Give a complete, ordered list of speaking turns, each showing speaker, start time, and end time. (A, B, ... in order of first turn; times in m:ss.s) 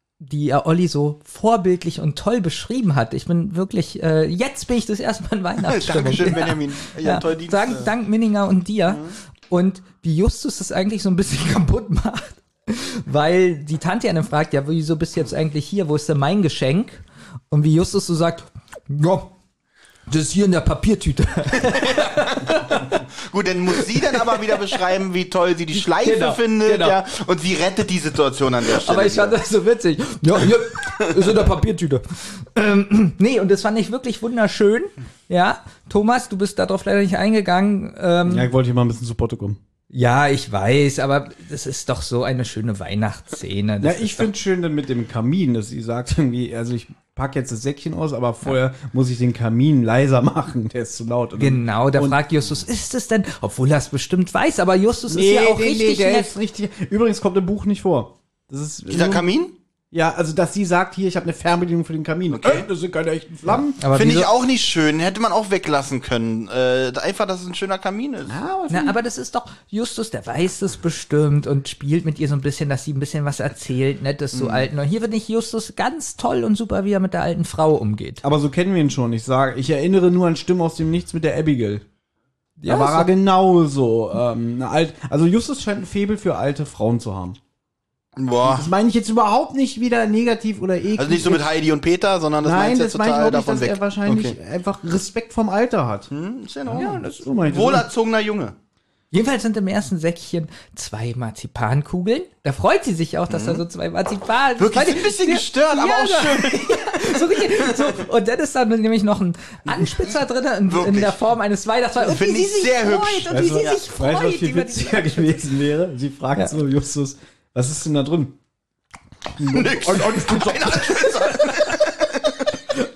0:00.2-0:19.3 A
0:05.6-0:07.9 B
0:20.1-0:23.1 A
0:21.6-0:29.4 B
0:23.8-0:24.8 A
0:26.0-0:27.0 A
0:28.8-0:38.5 A
0:30.9-0:31.2 B
0:38.3-0:39.6 C
0:39.9-0:44.3 A
0:43.8-0:52.2 C
0:51.4-0:56.3 A
0:55.1-0:59.3 C
0:58.9-0:59.5 B
0:59.9-1:03.8 C
1:02.3-1:02.7 B
1:03.8-1:04.3 A
1:03.9-1:08.4 B
1:08.3-1:09.0 C
1:08.7-1:18.2 A
1:14.3-1:14.7 B
1:18.2-1:21.8 C
1:22.6-1:23.1 A
1:22.7-1:27.4 C
1:28.2-1:28.7 B
1:28.4-1:31.6 C
1:31.0-1:34.4 B
1:32.4-1:36.1 C
1:36.1-1:38.6 B
1:36.7-1:37.9 C
1:39.1-1:55.3 A
1:43.3-1:43.6 B
1:44.6-1:47.9 B
1:49.7-1:50.1 B
1:50.7-1:51.2 B
1:52.0-1:53.8 B
1:53.3-1:58.4 C
1:59.4-2:01.1 C
1:59.5-2:02.6 B